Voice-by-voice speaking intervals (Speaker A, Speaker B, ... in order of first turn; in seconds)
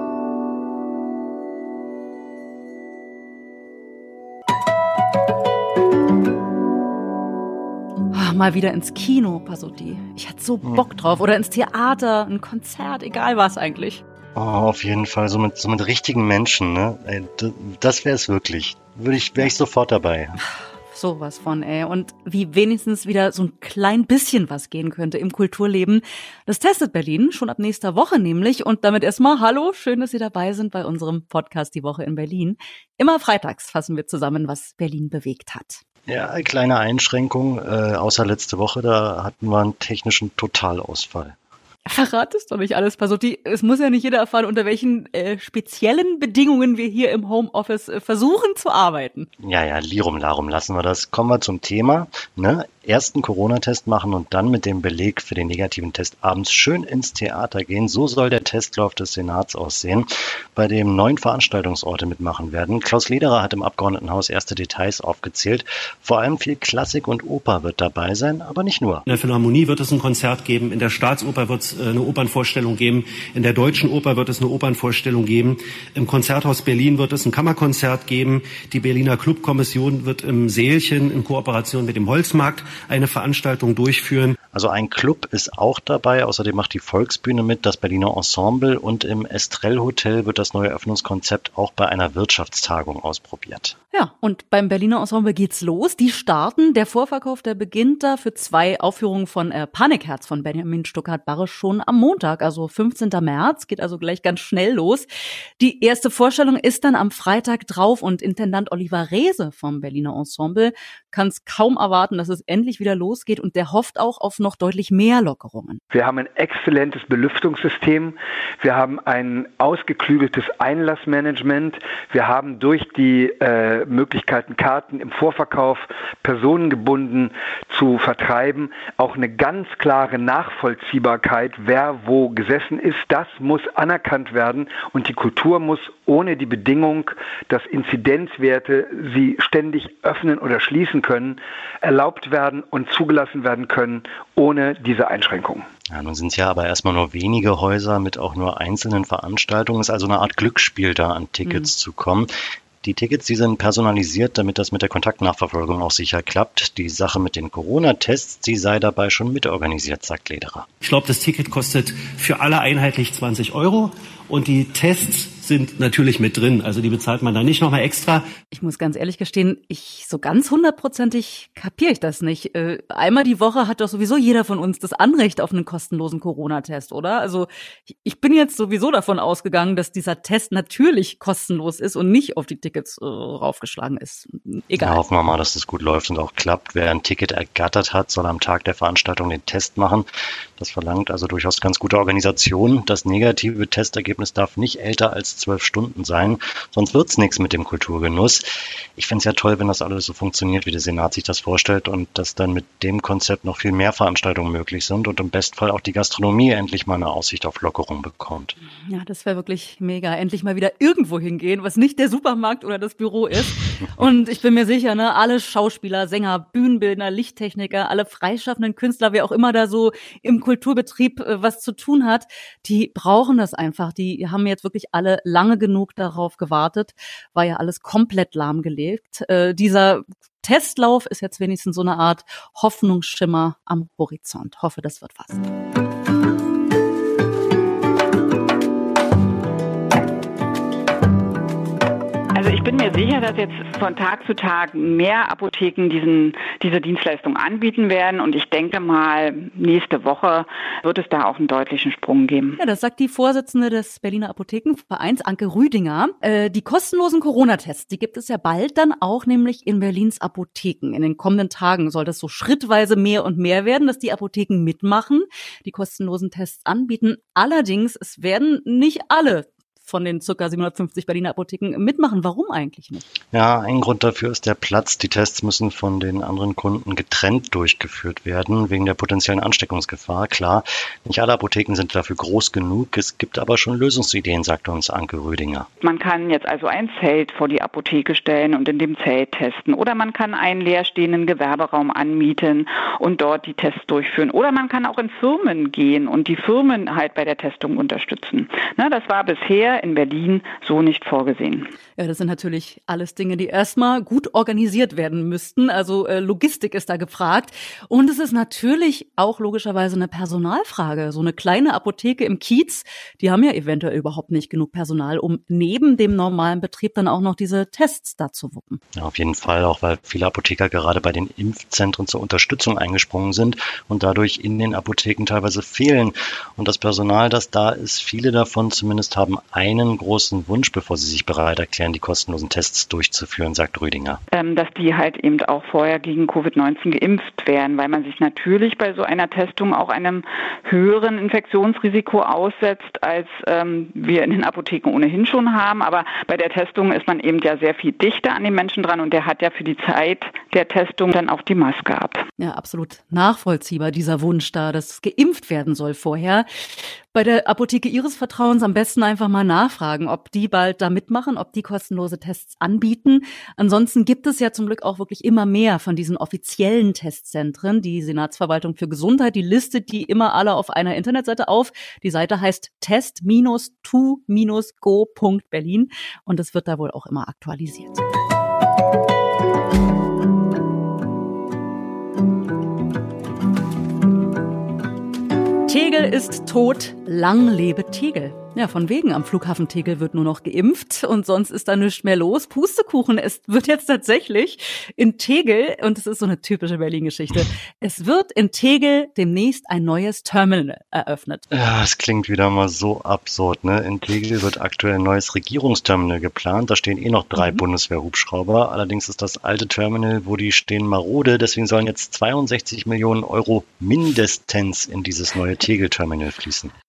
Speaker A: 8.1-14.0, 20.9-35.8, 41.9-49.3, 93.9-105.1, 105.6-115.8, 168.5-184.9, 208.9-213.4, 214.0-235.4, 252.6-273.0, 302.0-318.8, 352.4-356.6, 357.1-378.0, 385.7-401.4
Speaker B: 14.3-20.4, 36.1-41.4, 49.4-69.0, 84.5-93.8, 145.9-152.3, 152.8-160.7, 184.7-208.6, 273.3-285.7, 318.9-334.2, 401.5-416.7
Speaker C: 69.1-84.3, 160.8-168.2
Speaker D: 115.9-145.6
Speaker E: 242.3-252.6, 285.8-301.7, 334.3-352.2